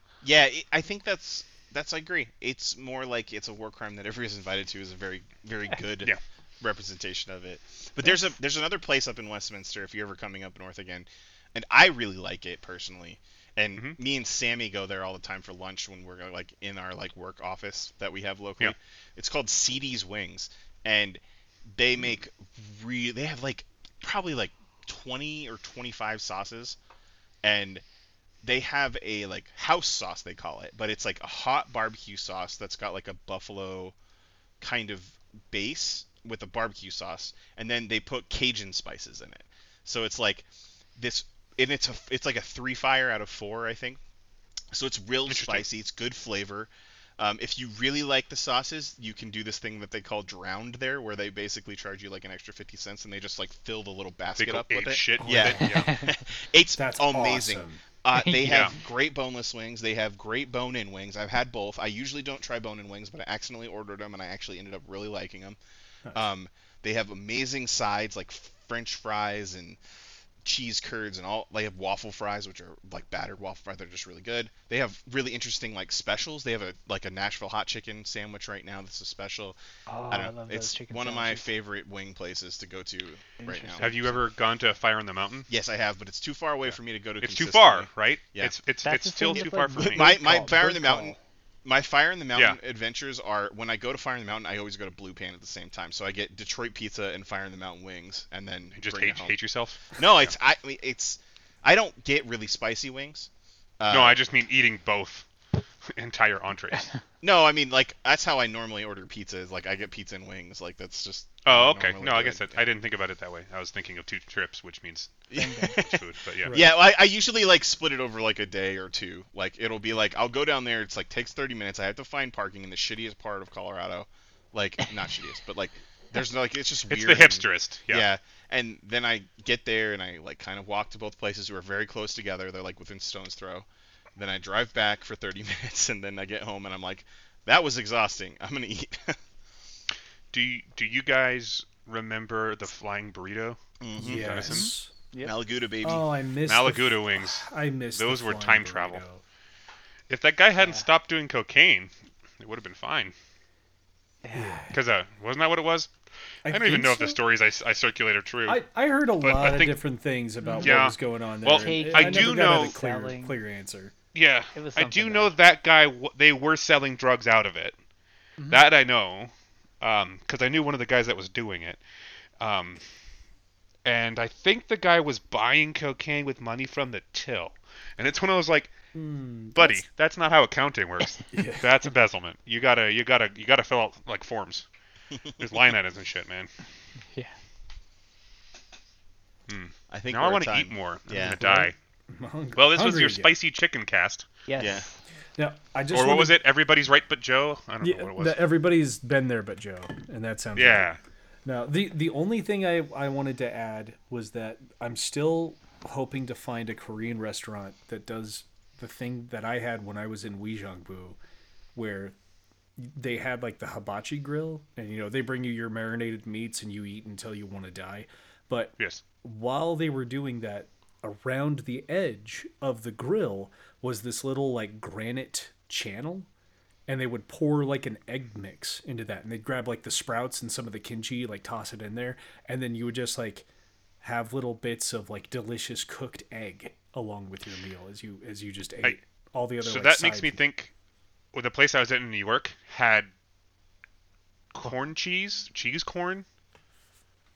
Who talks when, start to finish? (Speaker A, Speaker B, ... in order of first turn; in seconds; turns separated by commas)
Speaker A: 0.2-26.8, Speaker A: 27.4-27.8, Speaker A: 28.4-34.0, Speaker A: 34.6-40.5, Speaker A: 41.0-44.0, Speaker A: 44.7-65.6, Speaker B: 45.3-45.7, Speaker B: 54.4-56.0, Speaker C: 55.2-55.7, Speaker C: 56.8-57.8, Speaker B: 58.2-58.7, Speaker A: 66.1-69.8, Speaker A: 70.4-79.6, Speaker D: 79.9-81.5, Speaker A: 80.1-84.2, Speaker D: 83.4-83.9, Speaker B: 83.8-85.5, Speaker A: 85.5-88.6, Speaker B: 86.7-90.2, Speaker D: 88.8-91.2, Speaker A: 89.2-99.4, Speaker B: 98.7-100.0, Speaker A: 100.0-104.2, Speaker B: 103.9-105.3, Speaker B: 105.9-106.9, Speaker A: 107.2-112.7, Speaker B: 111.4-116.6, Speaker A: 115.3-139.2, Speaker D: 115.3-115.8, Speaker C: 116.5-116.8, Speaker B: 126.9-128.1, Speaker B: 140.3-144.7, Speaker A: 143.8-144.3, Speaker C: 144.0-144.9, Speaker D: 144.5-145.3, Speaker A: 145.2-146.1, Speaker C: 145.8-149.2, Speaker B: 146.5-149.0, Speaker B: 150.1-153.2, Speaker D: 150.6-150.8, Speaker D: 154.2-154.6, Speaker C: 154.3-154.8, Speaker B: 154.7-155.9, Speaker C: 156.4-157.2, Speaker B: 156.5-158.6, Speaker C: 158.5-163.9, Speaker B: 159.2-159.8, Speaker D: 160.5-160.8, Speaker B: 160.6-162.8, Speaker D: 161.5-163.4, Speaker B: 164.1-167.8, Speaker D: 164.5-165.4, Speaker D: 168.4-168.7, Speaker B: 168.5-171.8, Speaker B: 172.4-172.8, Speaker B: 173.8-178.7, Speaker C: 178.9-179.8, Speaker B: 179.5-184.7, Speaker C: 181.3-181.7, Speaker A: 185.1-185.6, Speaker B: 185.4-186.5, Speaker B: 189.5-191.8, Speaker A: 189.9-191.6, Speaker C: 191.4-193.3, Speaker B: 192.6-194.3, Speaker D: 194.5-195.0, Speaker A: 194.6-194.9, Speaker C: 195.4-196.4, Speaker B: 195.9-198.5, Speaker C: 197.8-211.2, Speaker B: 200.6-201.0, Speaker C: 211.8-212.2, Speaker C: 212.8-226.3, Speaker C: 226.9-233.5, Speaker C: 234.0-240.4, Speaker B: 239.6-240.7, Speaker B: 241.3-243.1, Speaker B: 244.5-246.3